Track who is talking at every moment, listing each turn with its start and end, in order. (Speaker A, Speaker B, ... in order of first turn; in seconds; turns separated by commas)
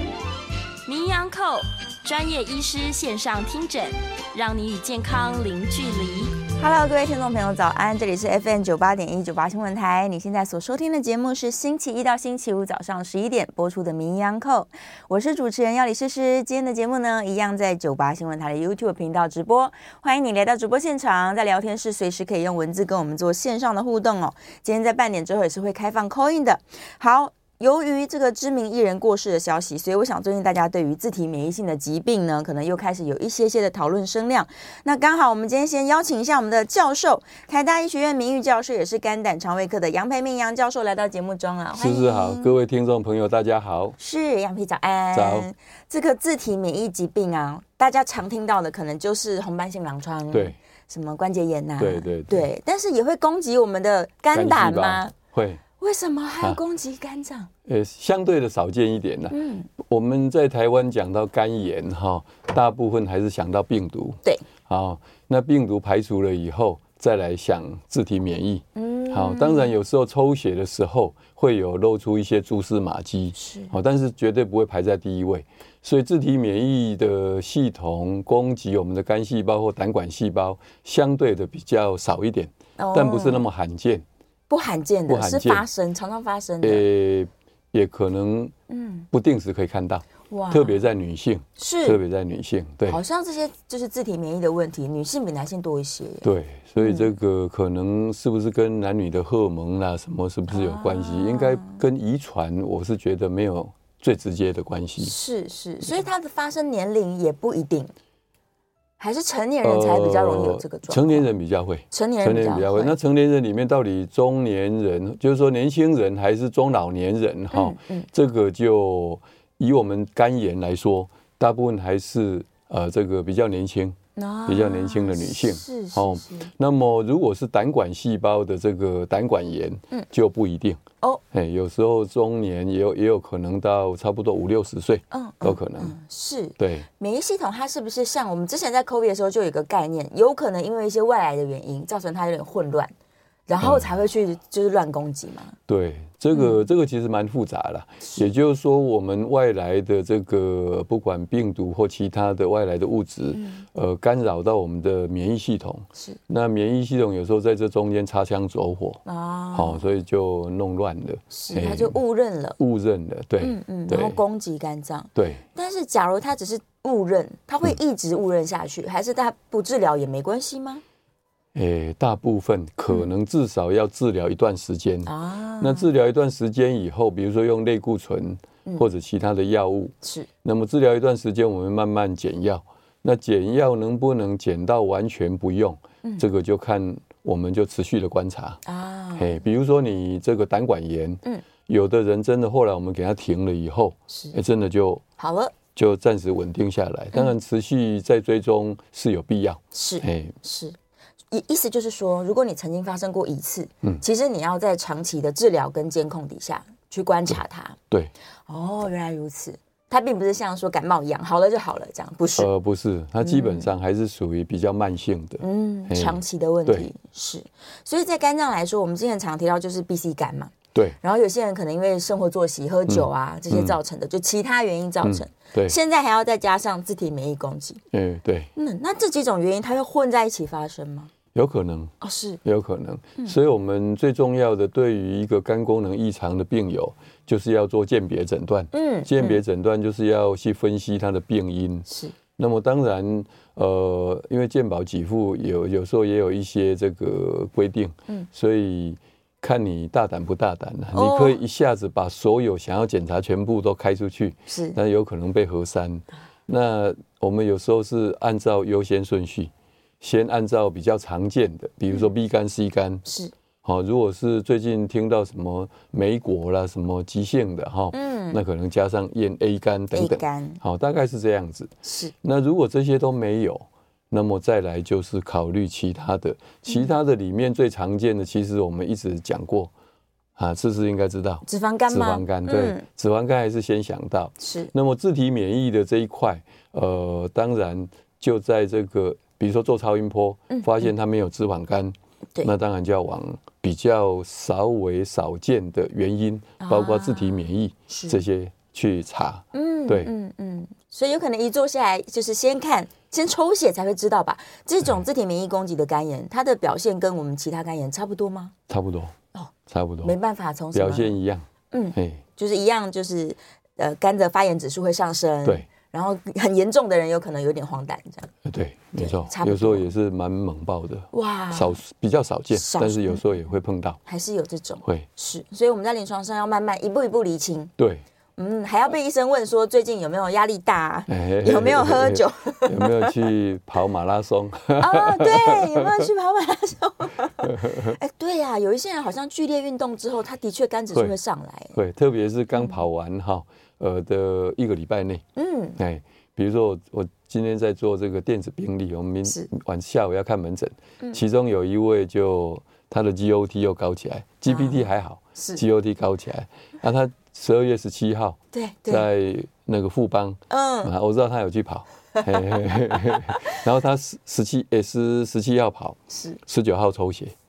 Speaker A: 0.8-6.4, Speaker B: 6.5-42.5, Speaker C: 41.8-44.0, Speaker B: 44.0-55.1, Speaker C: 45.1-45.5, Speaker C: 50.3-50.6, Speaker C: 51.8-52.5, Speaker C: 54.3-55.6, Speaker B: 55.8-57.5, Speaker C: 57.6-84.0, Speaker B: 59.3-59.7, Speaker B: 68.8-69.7, Speaker B: 73.3-73.7, Speaker B: 82.8-83.5, Speaker B: 84.5-86.8, Speaker C: 85.1-85.6, Speaker C: 86.6-88.5, Speaker B: 88.7-89.1, Speaker C: 89.1-93.0, Speaker B: 90.3-90.8, Speaker B: 91.6-92.0, Speaker B: 92.8-96.3, Speaker C: 96.2-105.1, Speaker B: 96.8-97.1, Speaker B: 100.5-101.8, Speaker B: 105.0-107.9, Speaker B: 109.0-111.3, Speaker C: 109.6-130.8, Speaker B: 111.9-112.9, Speaker B: 117.5-118.1, Speaker B: 124.2-126.5, Speaker C: 131.3-135.9, Speaker B: 135.1-142.9, Speaker C: 136.6-136.8, Speaker B: 143.5-145.6, Speaker C: 143.6-143.9, Speaker C: 145.7-159.0, Speaker B: 146.3-146.6, Speaker B: 148.0-148.3, Speaker B: 153.3-153.6, Speaker B: 159.0-159.9, Speaker C: 159.5-162.0, Speaker B: 161.3-162.6, Speaker C: 162.6-164.2, Speaker B: 163.4-170.8, Speaker C: 165.2-165.4, Speaker C: 171.5-188.6, Speaker B: 175.1-175.9, Speaker B: 180.0-180.3, Speaker B: 188.7-189.4, Speaker C: 189.2-195.0, Speaker B: 195.2-195.5, Speaker C: 195.7-200.3, Speaker B: 199.7-200.8, Speaker B: 201.3-207.8, Speaker B: 208.5-212.5, Speaker C: 212.3-216.9, Speaker B: 213.2-213.7, Speaker B: 215.4-227.8, Speaker C: 222.9-223.8, Speaker C: 225.0-225.8, Speaker C: 227.9-228.5, Speaker B: 228.6-231.1, Speaker C: 231.3-263.0, Speaker B: 232.0-232.4, Speaker B: 238.7-239.4, Speaker B: 241.9-242.1, Speaker B: 250.9-251.4, Speaker B: 254.5-254.8, Speaker B: 263.0-263.3, Speaker C: 263.6-279.7, Speaker B: 267.9-268.4, Speaker B: 269.9-270.6, Speaker B: 271.8-272.1, Speaker C: 280.4-300.1, Speaker B: 281.4-282.8, Speaker B: 284.4-284.7, Speaker B: 296.6-298.2, Speaker B: 299.5-308.5, Speaker C: 308.7-309.1, Speaker C: 309.7-310.1, Speaker B: 310.0-311.2, Speaker C: 310.7-312.2, Speaker B: 311.7-318.3, Speaker C: 318.4-324.0, Speaker B: 319.0-319.9, Speaker B: 321.1-321.8, Speaker B: 322.5-323.2, Speaker B: 324.1-327.7, Speaker C: 327.8-328.0, Speaker B: 328.4-333.1, Speaker C: 331.1-336.1, Speaker B: 334.8-341.8, Speaker C: 337.4-338.0, Speaker C: 341.7-345.2, Speaker B: 345.4-345.8, Speaker C: 345.8-367.3, Speaker B: 354.5-355.6, Speaker B: 358.5-359.1, Speaker B: 360.5-360.9, Speaker B: 362.1-363.5, Speaker B: 366.1-366.4